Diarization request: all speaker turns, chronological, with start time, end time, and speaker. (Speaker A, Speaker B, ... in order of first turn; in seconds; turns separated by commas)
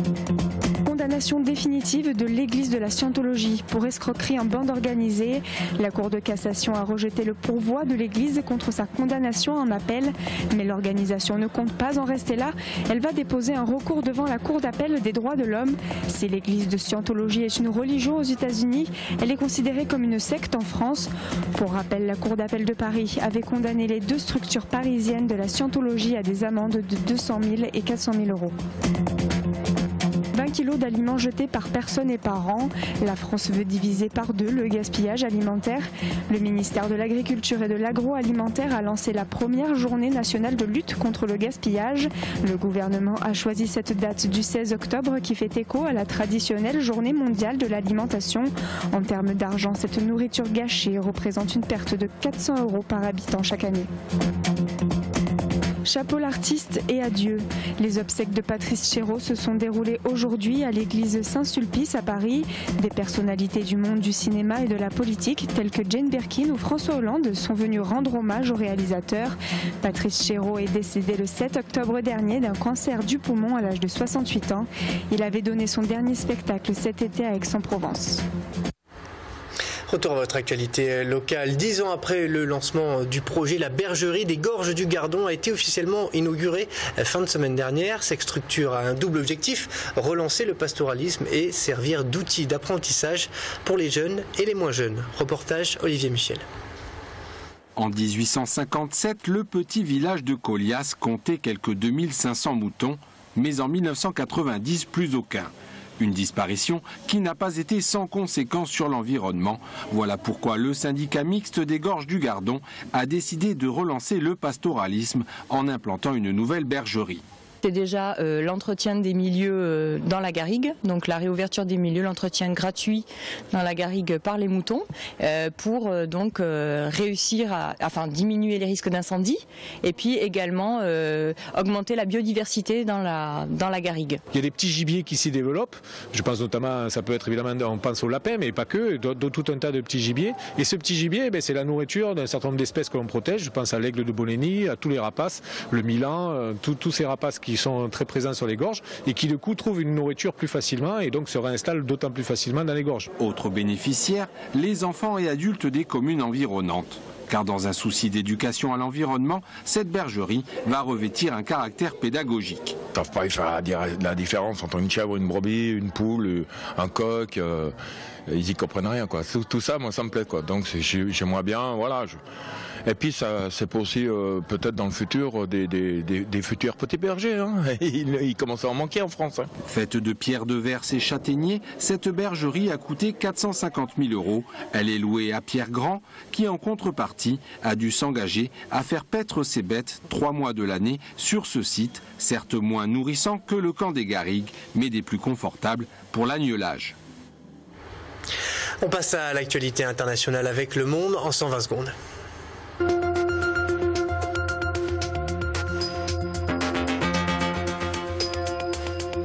Speaker A: 0.8-28.6, Speaker A: 30.3-53.9, Speaker A: 55.9-78.2, Speaker B: 79.9-96.4, Speaker C: 97.8-117.2, Speaker D: 117.6-134.2, Speaker E: 134.3-153.1, Speaker C: 153.2-162.8, Speaker F: 162.9-167.7, Speaker F: 168.3-172.2, Speaker F: 172.9-179.5, Speaker C: 179.6-196.9, Speaker B: 198.8-201.9